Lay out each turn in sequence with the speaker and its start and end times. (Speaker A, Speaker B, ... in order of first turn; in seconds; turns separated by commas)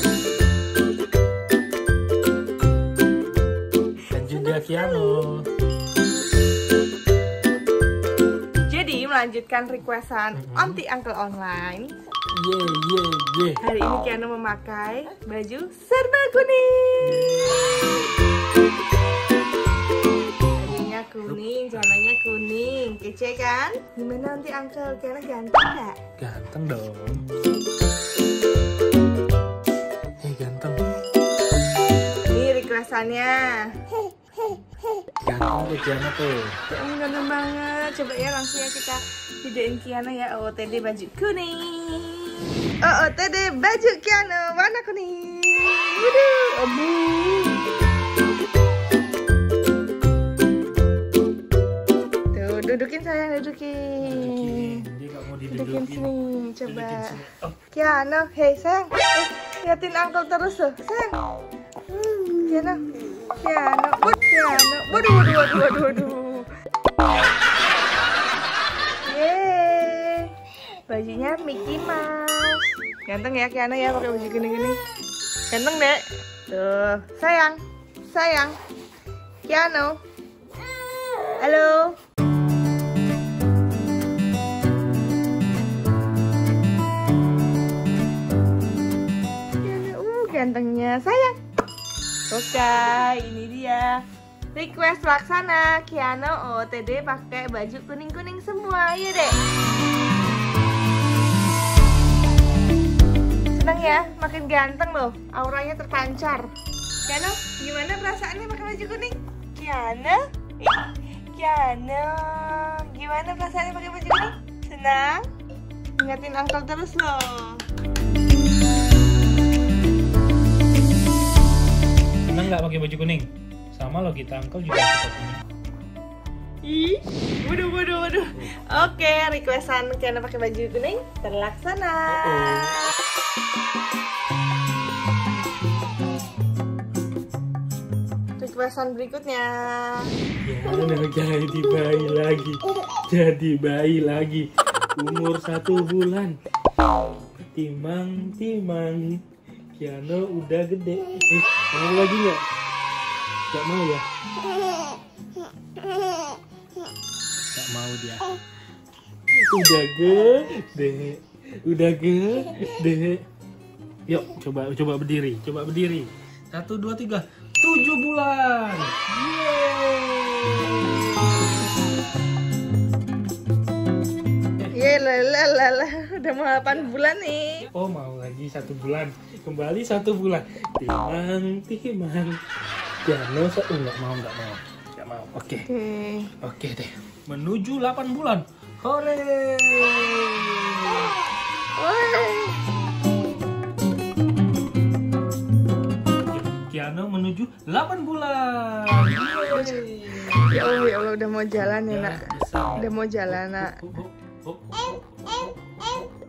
Speaker A: 4.1-5.5, Speaker B: 4.5-4.9, Speaker B: 8.6-11.9, Speaker A: 10.3-10.8, Speaker A: 12.3-13.6, Speaker B: 13.6-17.3, Speaker A: 17.0-18.0, Speaker B: 20.6-26.0, Speaker A: 20.6-21.9, Speaker A: 26.2-27.2, Speaker A: 30.2-30.8, Speaker B: 32.2-33.9, Speaker A: 35.2-36.6, Speaker B: 36.7-47.6, Speaker B: 52.3-54.8, Speaker A: 54.0-56.1, Speaker B: 55.5-57.1, Speaker A: 56.7-57.6, Speaker B: 57.7-61.2, Speaker B: 61.9-62.8, Speaker B: 63.4-66.5, Speaker B: 69.0-70.3, Speaker B: 70.9-74.8, Speaker B: 75.5-78.6, Speaker B: 79.5-80.0, Speaker B: 81.4-82.0, Speaker B: 89.6-91.3, Speaker B: 92.3-94.0, Speaker B: 94.5-99.4, Speaker B: 103.5-106.5, Speaker B: 107.0-115.3, Speaker B: 116.0-117.6, Speaker A: 122.2-125.4, Speaker B: 126.6-132.7, Speaker A: 132.1-132.8, Speaker B: 138.4-140.2, Speaker A: 140.4-146.4, Speaker A: 147.5-149.2, Speaker A: 149.8-152.4, Speaker A: 153.5-154.0, Speaker A: 157.5-158.3, Speaker A: 159.3-163.2, Speaker A: 164.1-171.0, Speaker B: 174.7-177.7, Speaker A: 177.7-182.4, Speaker A: 183.0-185.7, Speaker B: 185.7-186.3, Speaker A: 186.4-191.2, Speaker B: 191.8-192.8, Speaker A: 196.3-200.6, Speaker B: 199.5-203.8, Speaker A: 201.8-206.1